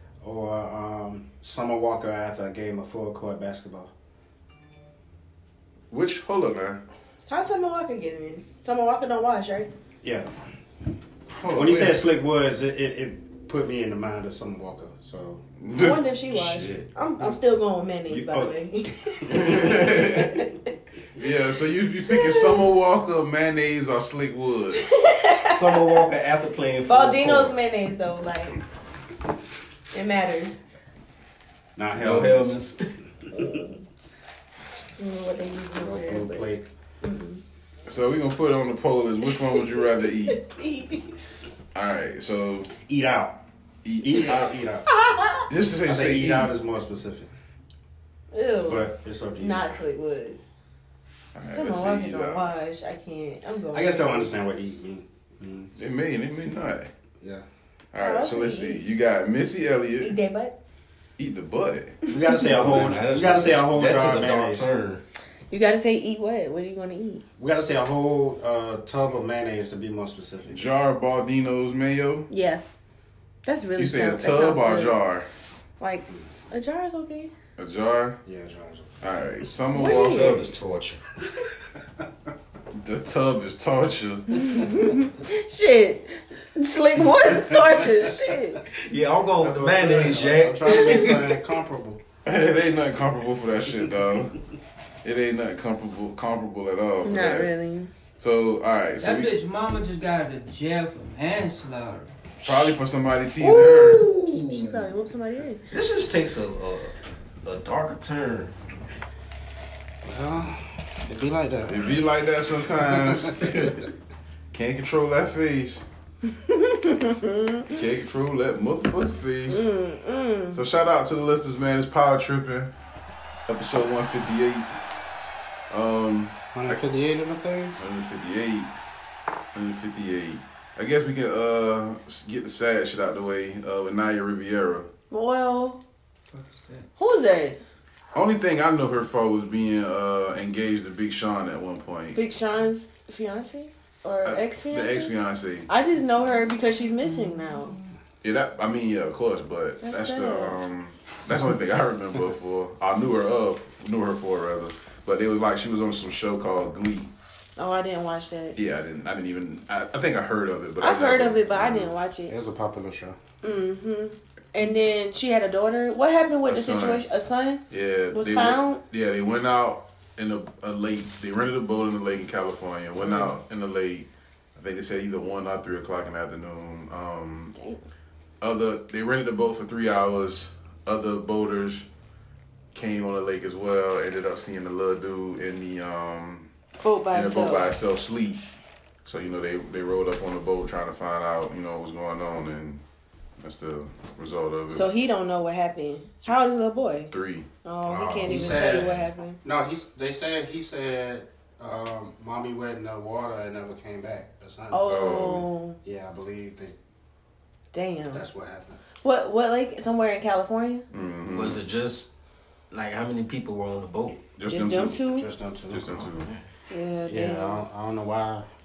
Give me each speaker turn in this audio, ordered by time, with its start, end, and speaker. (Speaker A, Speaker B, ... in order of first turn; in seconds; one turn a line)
Speaker A: 0.2-3.9
Speaker B: 5.9-6.8
Speaker C: 7.3-9.7
Speaker A: 10.0-10.3
Speaker B: 11.3-12.0
Speaker A: 11.5-15.4
Speaker B: 15.6-16.1
Speaker C: 15.7-20.6
Speaker D: 16.3-16.9
Speaker A: 18.1-18.5
Speaker B: 19.3-20.3
Speaker B: 21.1-24.9
Speaker C: 22.1-22.7
Speaker C: 24.7-26.1
Speaker D: 25.5-27.5
Speaker C: 26.9-28.6
Speaker C: 29.9-30.6
Speaker A: 31.8-32.6
Speaker D: 31.9-32.8
Speaker C: 33.3-33.8
Speaker C: 35.0-37.4
Speaker A: 35.8-36.6
Speaker B: 37.9-40.4
Speaker C: 39.3-41.1
Speaker B: 41.7-42.7
Speaker A: 42.9-43.4
Speaker B: 43.8-44.5
Speaker A: 44.0-44.9
Speaker C: 45.0-45.5
Speaker B: 45.5-46.5
Speaker A: 45.9-47.3
Speaker C: 48.3-50.4
Speaker A: 48.7-49.7
Speaker B: 51.3-52.5
Speaker C: 51.4-54.3
Speaker A: 53.7-55.7
Speaker B: 55.7-56.9
Speaker B: 57.9-60.2
Speaker C: 58.0-58.8
Speaker C: 60.0-60.5
Speaker B: 61.2-62.0
Speaker A: 62.1-64.7
Speaker D: 62.4-65.0
Speaker C: 65.5-67.2
Speaker A: 67.4-70.6
Speaker B: 70.5-72.3
Speaker C: 72.3-72.6
Speaker C: 73.4-74.9
Speaker B: 73.8-75.3
Speaker C: 75.8-77.3
Speaker B: 77.6-78.2
Speaker A: 78.2-78.9
Speaker B: 79.0-80.4
Speaker C: 79.7-80.4
Speaker D: 79.9-81.0
Speaker B: 82.7-84.2
Speaker C: 84.3-88.6
Speaker D: 88.7-91.3
Speaker A: 89.4-92.0
Speaker B: 92.2-94.3
Speaker B: 95.0-97.5
Speaker C: 97.0-97.9
Speaker B: 98.2-99.3
Speaker E: 99.0-102.1
Speaker B: 102.4-104.1
Speaker D: 103.4-104.8
Speaker C: 104.3-105.6
Speaker D: 105.7-106.9
Speaker D: 107.4-108.5
Speaker A: 110.0-111.9
Speaker B: 111.7-113.9
Speaker A: 112.9-113.7
Speaker B: 114.5-115.8
Speaker C: 116.5-117.8
Speaker B: 117.7-119.6
Speaker C: 119.5-120.6
Speaker B: 120.5-122.7
Speaker B: 123.5-124.7
Speaker B: 125.7-126.8
Speaker A: 126.5-127.8
Speaker B: 127.8-128.7
Speaker B: 129.5-134.9
Speaker C: 135.1-135.8
Speaker E: 136.3-136.9
Speaker C: 137.0-137.6
Speaker B: 138.1-142.2
Speaker C: 142.1-145.1
Speaker B: 144.2-145.7
Speaker C: 145.7-147.8
Speaker E: 147.1-147.8
Speaker B: 148.2-157.1
Speaker C: 149.8-150.6
Speaker A: 151.3-151.6
Speaker C: 157.6-158.6
Speaker B: 158.6-161.9
Speaker C: 160.8-162.3
Speaker A: 162.3-163.2
Speaker C: 163.4-168.8
Speaker B: 166.4-167.0
Speaker B: 167.7-177.5
Speaker C: 177.5-177.8
Speaker B: 178.4-181.8
Speaker B: 182.7-186.5
Speaker C: 186.8-187.7
Speaker B: 187.1-188.4
Speaker B: 189.0-192.8
Speaker B: 193.4-194.9
Speaker C: 194.7-197.1
Speaker B: 197.1-197.5
Speaker C: 197.6-199.4
Speaker A: 197.9-204.8
Speaker B: 198.1-198.7
Speaker C: 204.7-205.8
Speaker B: 204.8-205.5
Speaker A: 205.8-206.7
Speaker C: 207.7-208.2
Speaker A: 208.1-208.8
Speaker C: 209.0-210.8
Speaker B: 210.9-211.6
Speaker D: 211.3-212.1
Speaker D: 212.7-214.3
Speaker B: 214.4-215.0
Speaker C: 214.5-215.3
Speaker A: 215.1-216.1
Speaker B: 215.7-216.3
Speaker C: 216.7-217.6
Speaker A: 217.1-218.5